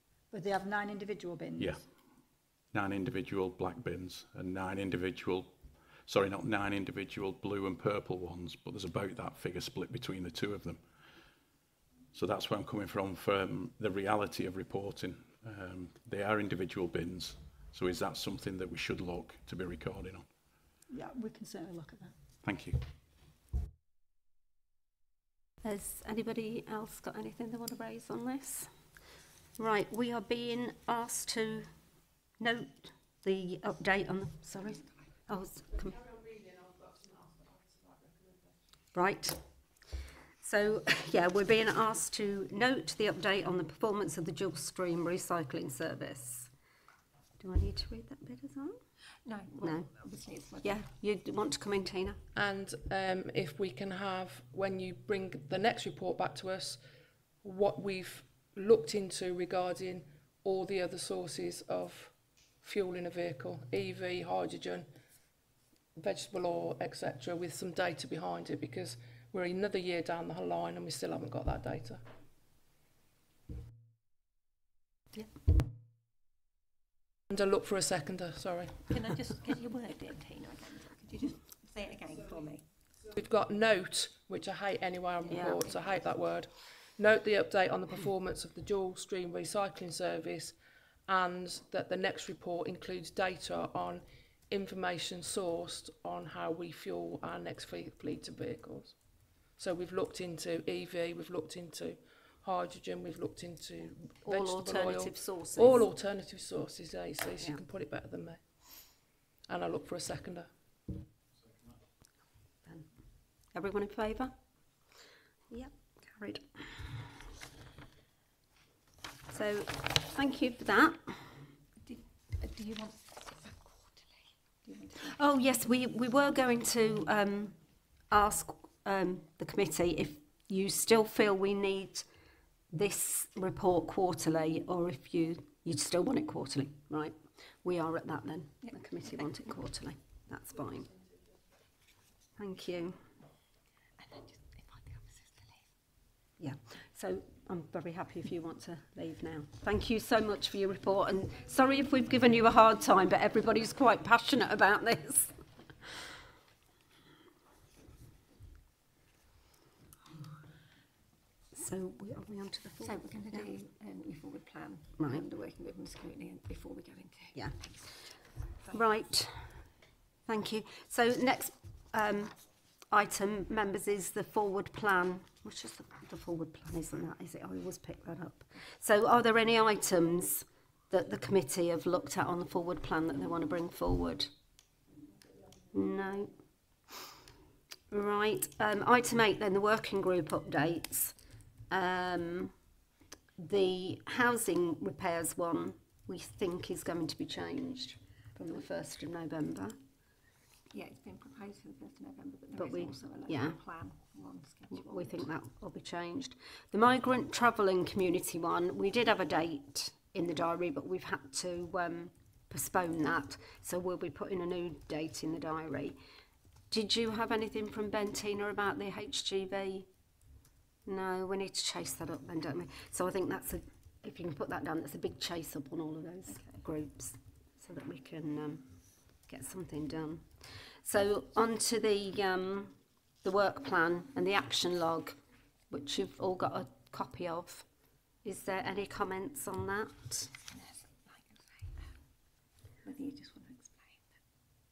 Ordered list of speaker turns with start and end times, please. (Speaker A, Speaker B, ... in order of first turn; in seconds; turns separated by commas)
Speaker A: 0.3-1.8, Speaker B: 1.6-1.8, Speaker B: 2.7-10.8, Speaker B: 12.1-20.3, Speaker A: 20.9-22.2, Speaker B: 22.4-22.8, Speaker C: 25.6-28.7, Speaker C: 29.6-31.7, Speaker C: 32.4-36.0, Speaker C: 38.9-39.4, Speaker C: 40.4-46.5, Speaker C: 47.4-48.8, Speaker D: 49.2-50.9, Speaker C: 49.6-49.9, Speaker C: 50.6-52.2, Speaker E: 52.4-56.8, Speaker E: 57.4-64.9, Speaker E: 66.0-72.0, Speaker E: 77.3-78.8, Speaker D: 78.9-82.8, Speaker E: 83.1-108.9, Speaker D: 85.3-86.0, Speaker C: 85.3-85.6, Speaker C: 104.2-105.8, Speaker E: 109.5-110.5, Speaker C: 113.5-114.3, Speaker C: 115.5-116.7, Speaker C: 119.3-121.0, Speaker D: 121.8-125.2, Speaker C: 125.0-127.5, Speaker C: 128.1-132.1, Speaker C: 132.7-140.9, Speaker C: 142.4-143.0, Speaker D: 144.0-145.7, Speaker C: 146.4-155.3, Speaker C: 161.5-163.5, Speaker D: 162.8-168.0, Speaker C: 165.0-165.2, Speaker C: 167.3-167.6, Speaker C: 168.7-169.4, Speaker C: 170.2-172.3, Speaker C: 172.9-184.3, Speaker C: 185.7-186.3, Speaker C: 187.9-191.1, Speaker C: 191.7-192.5, Speaker C: 193.4-199.8, Speaker D: 200.7-205.3, Speaker C: 202.5-203.6, Speaker C: 204.7-216.0, Speaker C: 216.7-219.9, Speaker C: 220.8-228.7, Speaker D: 226.3-226.6, Speaker C: 229.3-235.2, Speaker C: 235.7-237.7, Speaker C: 238.2-240.3, Speaker D: 240.5-241.7, Speaker D: 242.8-244.2